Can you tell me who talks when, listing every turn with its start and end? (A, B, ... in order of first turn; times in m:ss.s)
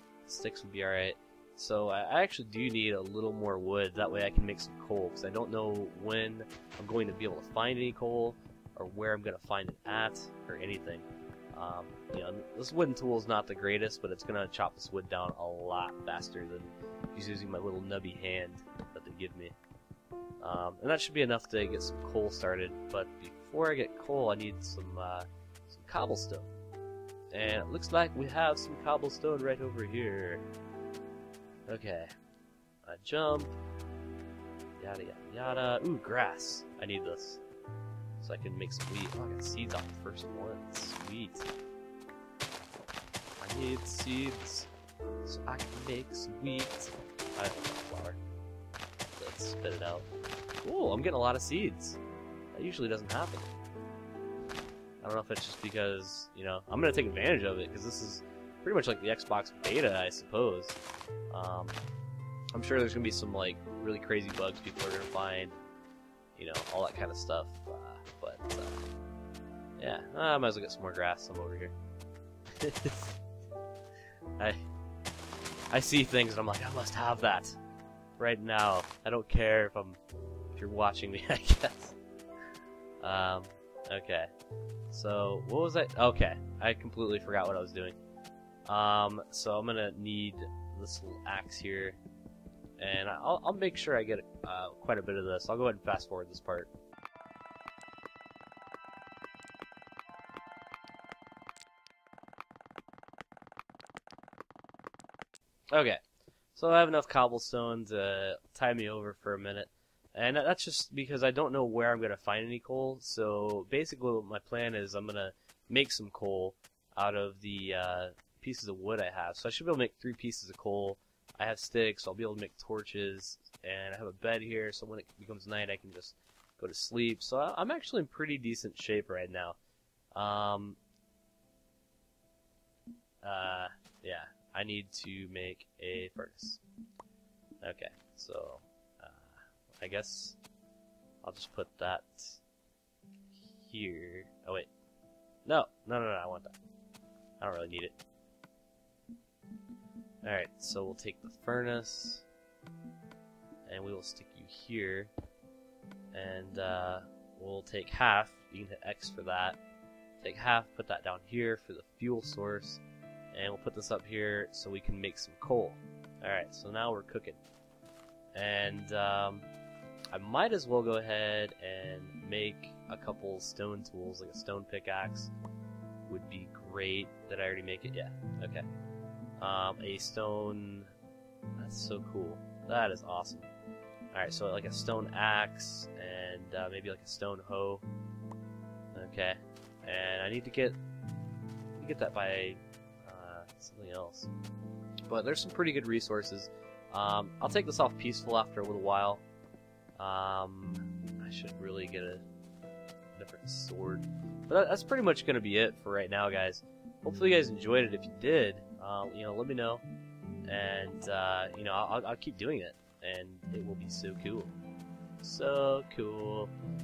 0:00.3-0:19.6 A
0:20.4-0:26.5 A
0:27.3-0:30.5 A
0:31.7-0:32.1 A
0:32.8-0:33.6 A
0:34.8-0:37.4 A
0:38.2-0:41.5 A
0:43.4-0:44.7 A
0:45.2-0:48.2 A
0:49.1-0:50.1 A
0:50.6-0:52.0 A
0:52.5-0:53.5 A
0:55.0-1:00.8 A
1:01.3-1:01.8 A
1:02.5-1:05.6 A
1:06.4-1:08.9 A
1:09.8-1:11.8 A
1:12.6-1:13.2 A
1:14.4-1:14.6 A
1:15.7-1:17.6 A
1:18.2-1:20.0 A
1:20.5-1:22.0 A
1:23.0-1:24.3 A
1:24.9-1:28.0 A
1:28.7-1:32.0 A
1:32.8-1:36.7 A
1:45.7-1:46.0 A
1:46.6-2:09.6 A
2:10.2-2:10.8 A
2:13.2-2:16.6 A
2:17.6-2:20.4 A
2:21.2-2:22.4 A
2:23.3-2:24.7 A
2:25.5-2:26.6 A
2:27.4-2:28.0 A
2:30.2-2:32.2 A
2:33.7-2:35.1 A
2:36.1-2:39.6 A
2:40.2-2:42.8 A
2:43.3-2:47.4 A
2:48.3-2:49.4 A
2:50.1-2:55.3 A
2:56.1-2:58.6 A
2:59.4-3:00.9 A
3:01.6-3:03.5 A
3:04.1-3:07.8 A
3:08.9-3:10.8 A
3:11.8-3:14.3 A
3:15.1-3:19.2 A
3:20.0-3:22.2 A
3:23.2-3:29.8 A
3:30.4-3:34.6 A
3:35.2-3:36.5 A